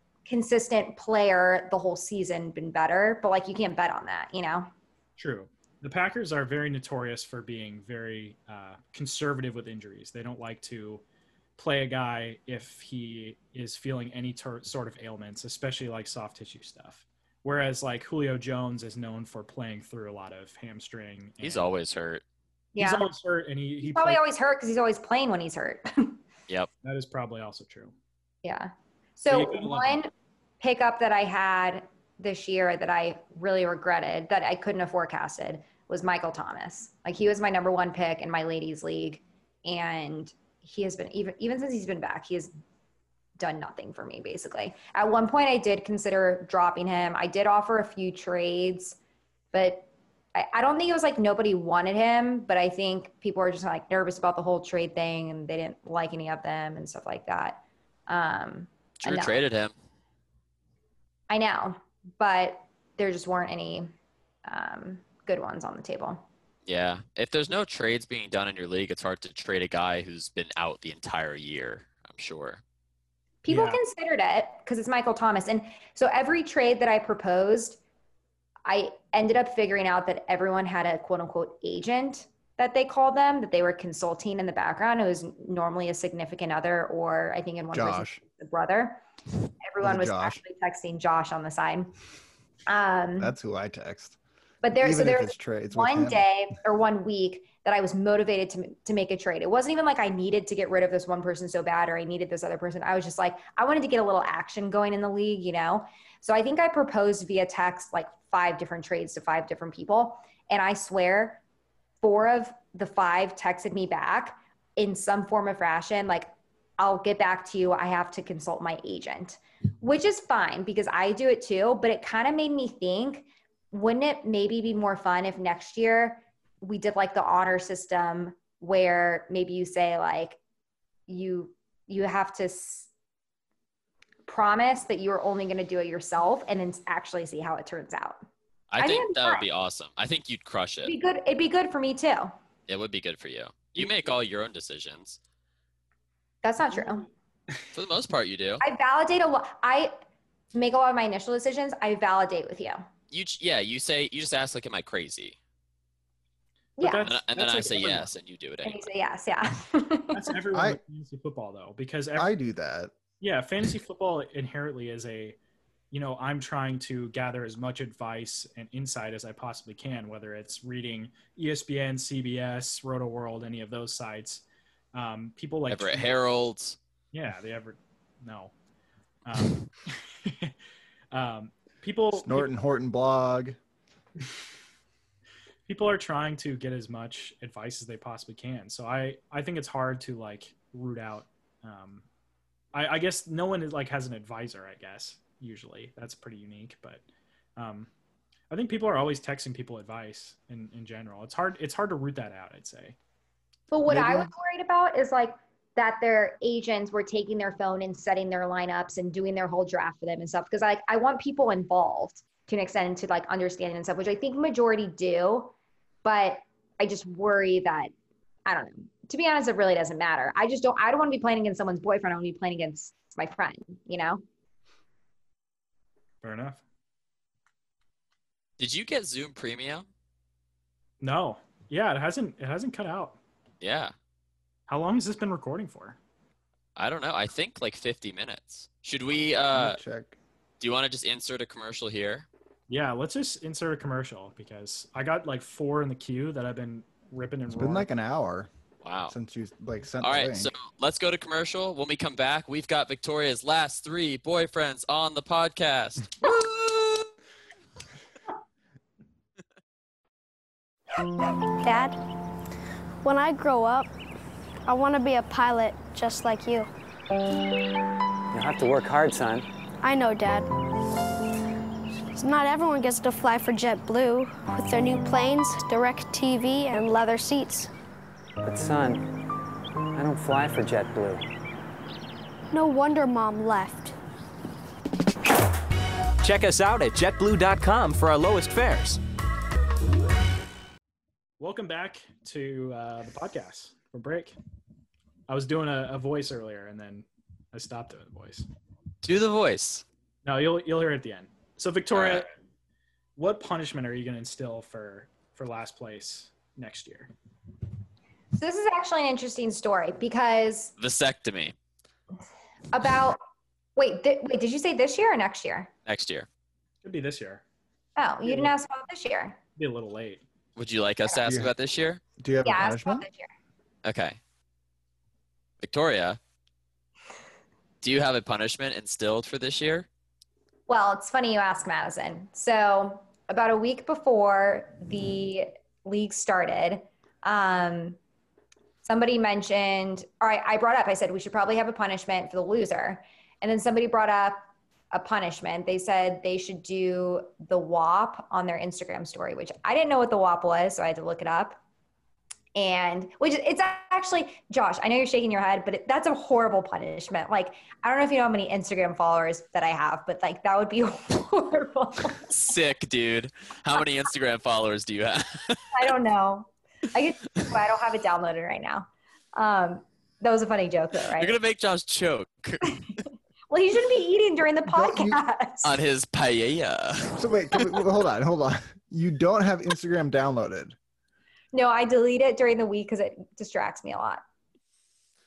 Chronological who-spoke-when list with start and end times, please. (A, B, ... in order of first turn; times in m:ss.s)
0:00.2-0:04.7 A
0:05.2-0:11.0 B
0:11.6-0:21.7 B
0:21.4-0:22.2 C
0:22.7-0:23.1 A
0:22.8-0:24.2 B
0:23.8-0:26.2 A
0:26.8-0:27.9 B
0:28.4-0:42.5 A
0:29.3-0:30.0 B
0:43.4-0:49.0 A
0:49.5-0:59.4 A
0:59.0-0:59.7 C
1:01.3-1:03.9 A
1:04.4-1:06.2 A
1:06.6-1:12.6 C
1:13.4-1:17.8 A
1:13.5-1:13.8 B
1:18.6-1:29.0 A
1:27.7-1:28.2 D
1:29.6-1:31.9 A
1:29.8-1:30.4 D
1:32.7-1:33.3 A
1:33.2-1:34.2 D
1:34.6-1:51.4 A
1:34.8-1:36.2 D
1:52.0-2:10.4 A
2:11.1-2:12.9 A
2:14.3-2:18.2 A
2:18.7-2:20.9 C
2:18.8-2:19.4 A
2:20.8-2:22.3 A
2:22.7-2:25.2 C
2:26.4-2:27.1 A
2:27.7-2:28.6 C
2:28.6-2:29.9 A
2:30.5-2:32.8 A
2:33.1-2:35.4 C
2:36.8-2:37.1 A
2:36.8-2:38.1 B
2:37.0-2:38.8 C
2:38.6-2:40.3 A
2:40.1-2:42.3 B
2:40.5-2:40.8 D
2:42.2-2:42.9 D
2:43.2-2:45.4 B
2:45.9-2:54.4 B
2:54.9-2:56.1 B
2:55.7-2:56.8 C
2:57.1-2:58.5 B
2:59.2-3:00.5 B
3:01.1-3:02.5 B
3:02.2-3:03.6 D
3:05.7-3:12.0 B
3:12.7-3:17.0 B
3:17.6-3:17.9 B
3:18.5-3:23.0 B
3:23.7-3:35.5 A
3:23.9-3:24.3 D
3:36.0-3:37.9 A
3:38.4-3:44.2 A
3:46.2-3:46.6 B
3:48.6-3:49.8 C
3:51.0-3:53.2 B
3:53.6-3:53.9 C
3:54.7-3:56.0 B
3:56.8-3:59.8 C
3:59.5-4:00.2 D
4:00.6-4:02.3 C
4:02.7-4:07.9 B
4:07.5-4:08.5 D
4:08.8-4:09.1 C
4:09.1-4:10.5 D
4:10.0-4:17.0 C
4:21.6-4:22.0 E
4:23.0-4:23.9 E
4:24.6-4:26.7 E
4:28.3-4:29.5 F
4:29.8-4:30.5 E
4:32.1-4:37.7 E
4:38.4-4:39.2 F
4:39.9-4:41.2 F
4:42.5-4:43.9 E
4:46.2-4:49.0 G
4:51.4-4:54.3 B
4:55.3-4:58.5 B
4:59.0-4:59.8 C
5:00.2-5:02.3 B
5:01.9-5:02.2 C
5:03.2-5:07.1 B
5:08.4-5:10.7 A
5:10.8-5:11.5 C
5:12.7-5:13.2 A
5:13.8-5:15.7 A
5:15.8-5:16.3 C
5:16.8-5:17.4 B
5:18.0-5:19.4 A
5:18.2-5:18.5 B
5:19.6-5:20.2 B
5:20.6-5:22.0 C
5:21.2-5:21.5 D
5:22.2-5:23.0 D
5:22.4-5:23.3 A
5:23.8-5:24.2 C
5:25.6-5:26.2 C
5:27.8-5:29.9 C
5:30.7-5:38.0 A
5:38.8-5:51.6 A
5:52.5-6:02.3 A
6:02.3-6:05.7 C
6:05.7-6:11.4 A
6:11.2-6:12.8 C
6:13.5-6:15.8 A
6:14.7-6:15.2 D
6:15.6-6:17.8 C
6:17.2-6:20.8 D
6:21.5-6:24.2 A